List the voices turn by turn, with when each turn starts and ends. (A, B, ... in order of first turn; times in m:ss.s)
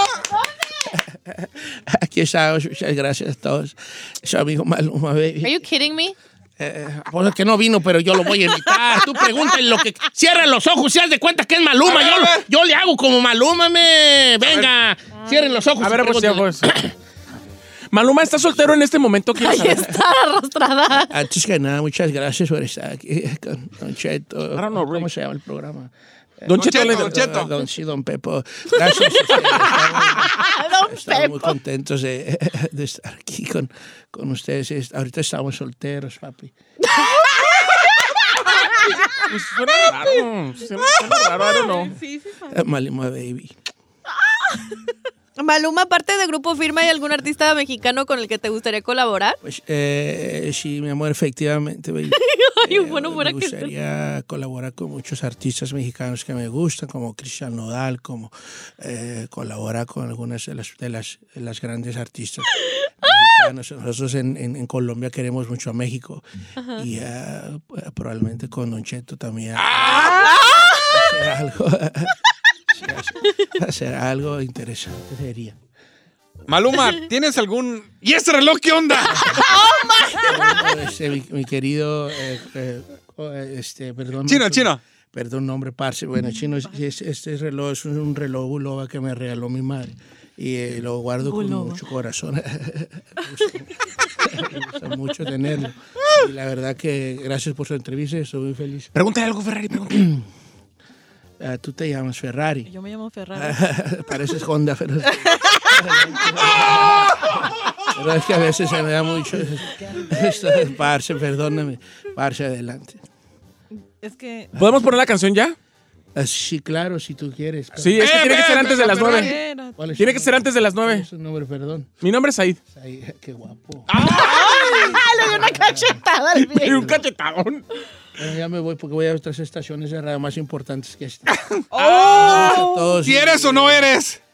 0:01.0-0:05.6 A
0:05.4-0:06.2 B
0:06.6-0:16.9 A
0:11.8-0:12.5 C
0:14.4-0:14.7 C
0:15.8-0:16.7 D
0:17.9-0:19.9 D
0:19.4-0:21.1 B
0:21.1-0:36.5 A
0:24.5-0:25.1 D
0:26.5-0:27.3 D
0:26.6-0:27.5 C
0:28.8-0:29.4 B
0:30.2-0:31.6 B
0:36.9-0:37.8 B
0:39.2-0:41.9 D
0:41.5-0:42.6 E
0:42.5-0:43.6 A
0:45.4-0:49.4 B
0:49.4-1:06.2 A
0:52.1-0:53.7 B
1:06.8-1:10.3 A
1:09.6-1:10.8 C
1:10.9-1:12.2 A
1:12.7-1:15.6 A
1:16.5-1:19.5 C
1:19.2-1:19.4 A
1:19.4-1:20.5 E
1:19.7-1:20.1 B
1:20.2-1:38.9 A
1:24.3-1:24.8 C
1:38.9-1:40.2 D
1:39.9-1:40.2 A
1:41.4-1:42.7 A
1:42.7-1:43.6 E
1:43.4-1:53.0 A
1:45.1-1:45.6 E
1:53.7-1:54.6 E
1:54.6-1:55.6 D
1:56.2-1:58.7 A
1:57.8-1:59.4 D
1:58.0-1:59.4 C
1:58.9-1:59.8 E
1:59.8-2:01.9 A
2:00.0-2:01.1 D
2:02.0-2:02.6 D
2:02.7-2:03.9 A
2:03.9-2:05.3 D
2:04.2-2:06.6 E
2:05.2-2:06.0 A
2:06.4-2:07.6 D
2:06.6-2:07.0 A
2:08.2-2:13.9 A
2:11.7-2:13.0 E
2:12.2-2:14.2 C